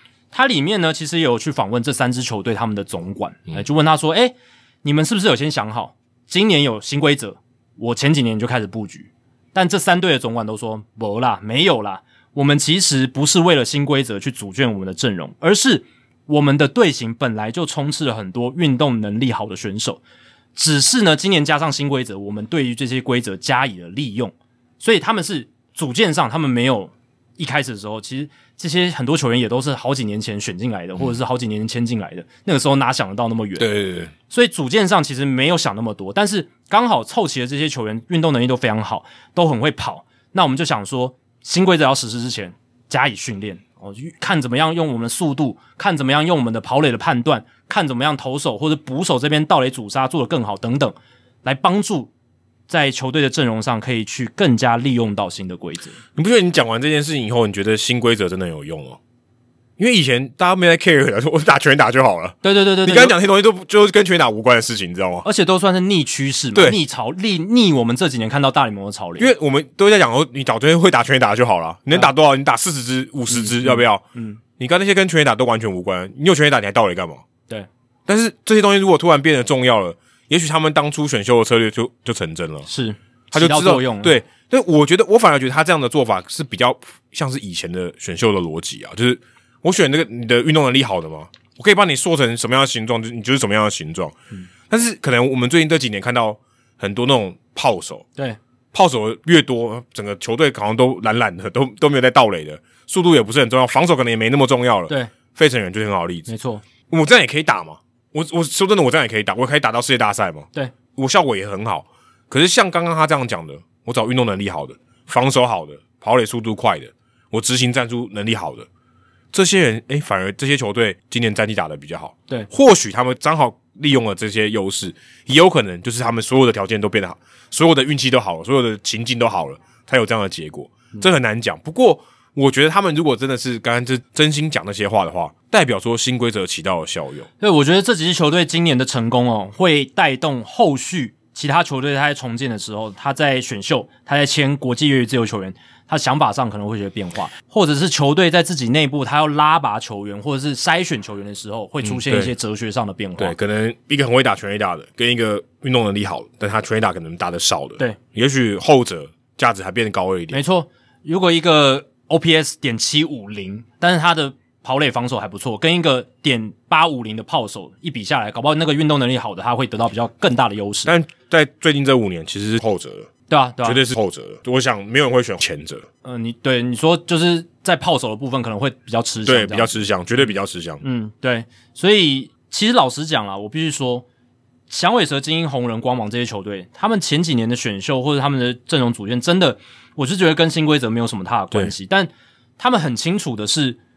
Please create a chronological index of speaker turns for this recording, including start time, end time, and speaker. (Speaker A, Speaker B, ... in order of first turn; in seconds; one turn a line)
Speaker A: 0.3-20.0
Speaker A: 20.6-33.7
Speaker B: 33.6-34.1
Speaker A: 34.3-52.1
Speaker A: 52.7-56.0
Speaker B: 56.2-59.0
Speaker B: 59.8-65.3
Speaker A: 62.4-63.2
Speaker A: 65.2-69.3
Speaker B: 69.2-74.0
Speaker A: 73.3-74.4
Speaker B: 74.6-77.2
Speaker B: 78.1-82.7
Speaker A: 82.7-84.2
Speaker B: 83.3-94.1
Speaker B: 94.7-98.1
Speaker B: 98.7-106.3
Speaker A: 106.3-106.6
Speaker B: 106.9-118.7
Speaker B: 119.3-137.3
Speaker A: 137.4-153.3
Speaker B: 151.8-152.3
Speaker B: 153.2-160.4
Speaker A: 160.3-170.9
Speaker B: 170.8-173.1
Speaker A: 173.3-173.8
Speaker B: 173.6-175.8
Speaker A: 176.0-179.9
Speaker B: 179.3-180.8
Speaker A: 180.8-184.1
Speaker A: 184.7-193.8